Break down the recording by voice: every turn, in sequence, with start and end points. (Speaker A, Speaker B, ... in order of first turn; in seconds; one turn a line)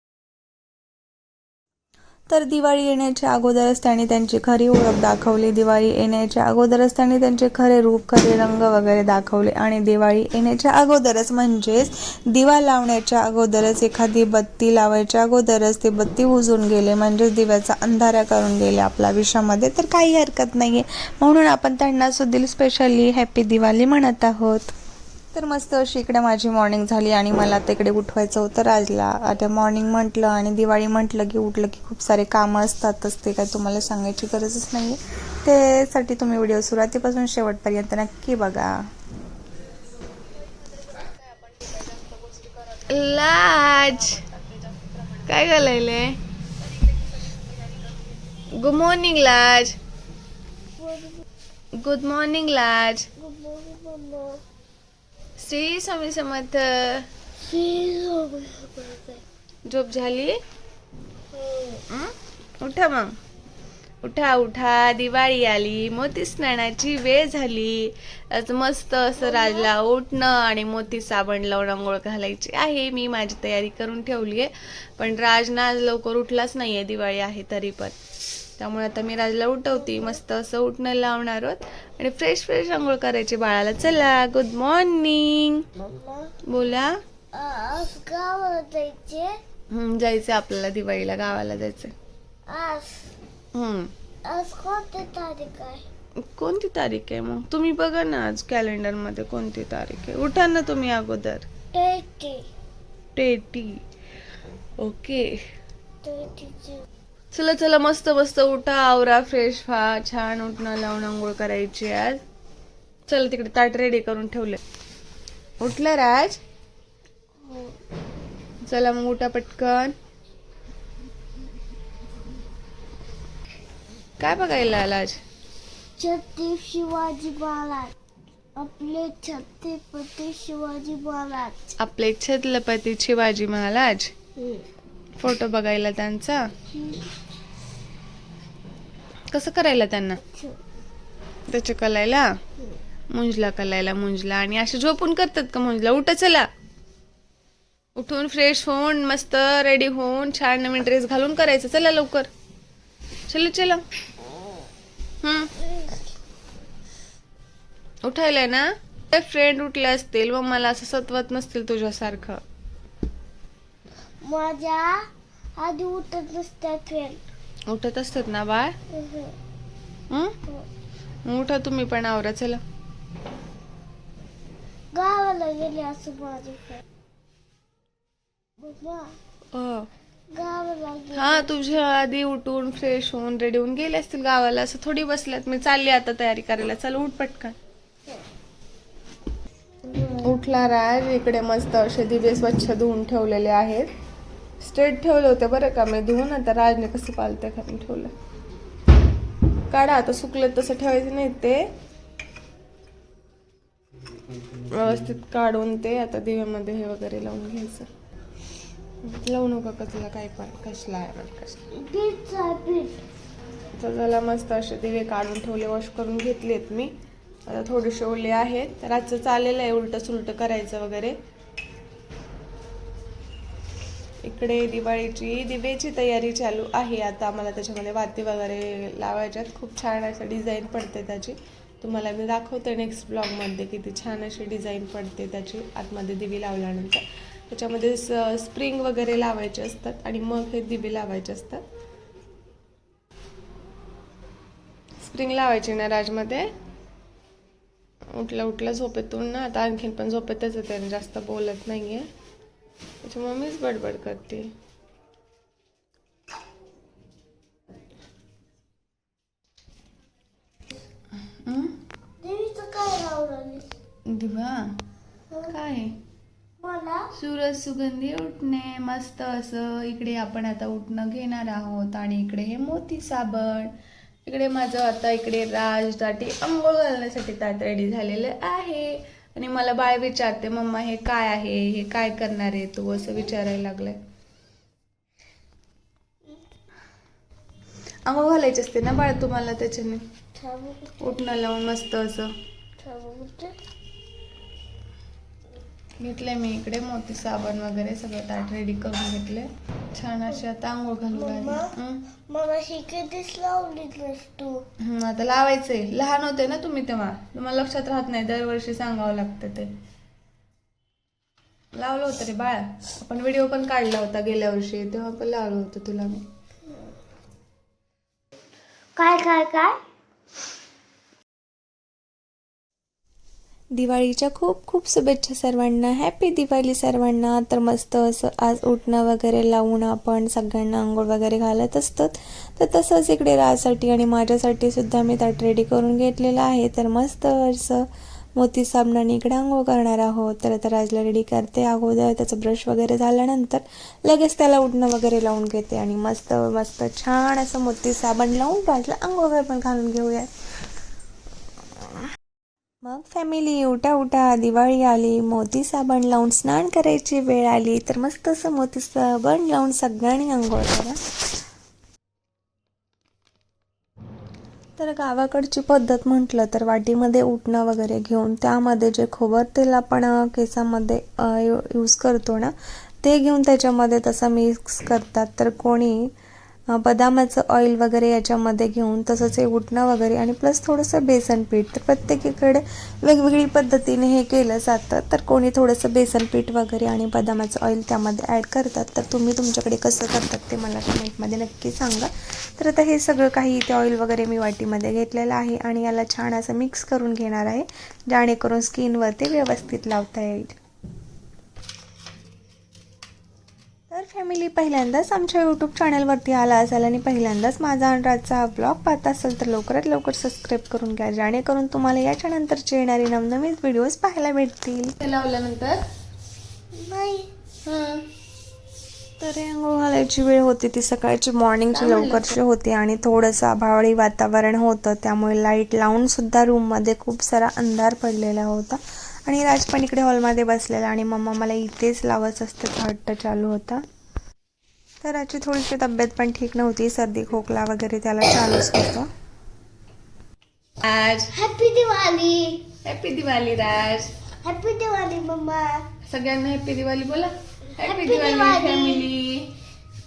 Speaker A: 2.3-24.7
Speaker A: 25.3-38.7
Speaker B: 41.0-46.2
Speaker B: 46.9-47.4
Speaker B: 48.5-49.8
Speaker C: 50.8-51.2
Speaker B: 51.8-53.1
Speaker C: 53.2-54.4
Speaker B: 55.4-57.1
Speaker C: 57.4-59.2
Speaker B: 59.7-60.4
Speaker C: 61.3-61.8
Speaker B: 61.9-63.1
Speaker B: 64.0-78.0
Speaker C: 69.2-69.7
Speaker B: 78.6-85.7
Speaker C: 85.8-86.3
Speaker B: 86.5-87.0
Speaker C: 87.3-89.3
Speaker B: 89.7-91.9
Speaker C: 92.5-93.1
Speaker B: 93.5-93.9
Speaker C: 94.3-95.9
Speaker B: 96.2-101.5
Speaker C: 101.7-102.5
Speaker B: 103.2-103.8
Speaker B: 104.8-105.4
Speaker C: 106.0-106.8
Speaker B: 107.3-112.2
Speaker B: 113.1-114.6
Speaker B: 115.6-116.4
Speaker C: 117.4-117.7
Speaker B: 118.7-120.0
Speaker B: 124.2-125.2
Speaker C: 126.0-127.9
Speaker C: 128.6-131.6
Speaker B: 131.8-134.1
Speaker C: 134.4-134.7
Speaker B: 135.2-136.4
Speaker C: 136.7-137.1
Speaker B: 139.3-140.2
Speaker C: 140.2-140.6
Speaker B: 141.5-142.3
Speaker B: 143.1-146.5
Speaker B: 148.0-152.3
Speaker B: 153.3-153.8
Speaker B: 155.2-155.5
Speaker B: 158.0-162.4
Speaker C: 164.2-165.0
Speaker C: 165.6-167.2
Speaker B: 167.7-168.8
Speaker C: 168.9-169.3
Speaker B: 170.1-170.3
Speaker B: 171.2-172.6
Speaker C: 174.9-176.8
Speaker C: 178.6-179.2
Speaker B: 179.5-179.9
Speaker C: 180.3-181.5
Speaker B: 181.1-187.6
Speaker C: 189.8-190.4
Speaker B: 190.2-193.9
Speaker B: 194.6-198.1
Speaker B: 199.7-201.7
Speaker B: 204.5-207.9
Speaker B: 209.0-211.7
Speaker C: 211.7-213.0
Speaker B: 213.8-216.9
Speaker B: 217.5-221.2
Speaker B: 224.2-241.6
Speaker B: 245.0-246.5
Speaker B: 248.1-252.1
Speaker B: 253.0-254.5
Speaker B: 261.3-261.8
Speaker C: 262.2-263.6
Speaker B: 264.1-264.8
Speaker B: 265.5-266.0
Speaker C: 266.6-267.1
Speaker B: 267.2-273.7
Speaker B: 274.3-284.0
Speaker B: 288.1-290.0
Speaker C: 290.4-291.0
Speaker B: 291.0-292.3
Speaker C: 292.8-293.6
Speaker B: 296.0-302.1
Speaker C: 301.1-304.6
Speaker B: 304.8-309.7
Speaker B: 311.8-316.2
Speaker C: 319.0-319.8
Speaker A: 323.7-350.3
Speaker A: 352.8-361.0
Speaker A: 364.8-376.1
Speaker A: 376.7-400.6
Speaker A: 403.9-414.9
Speaker B: 415.0-415.8
Speaker C: 416.7-417.3
Speaker B: 417.7-418.1
Speaker A: 419.2-433.8
Speaker B: 421.7-422.4
Speaker A: 435.0-439.1
Speaker B: 440.8-441.3
Speaker C: 441.3-442.7
Speaker B: 442.9-444.1
Speaker C: 444.4-445.9
Speaker B: 446.1-449.6
Speaker C: 447.8-449.1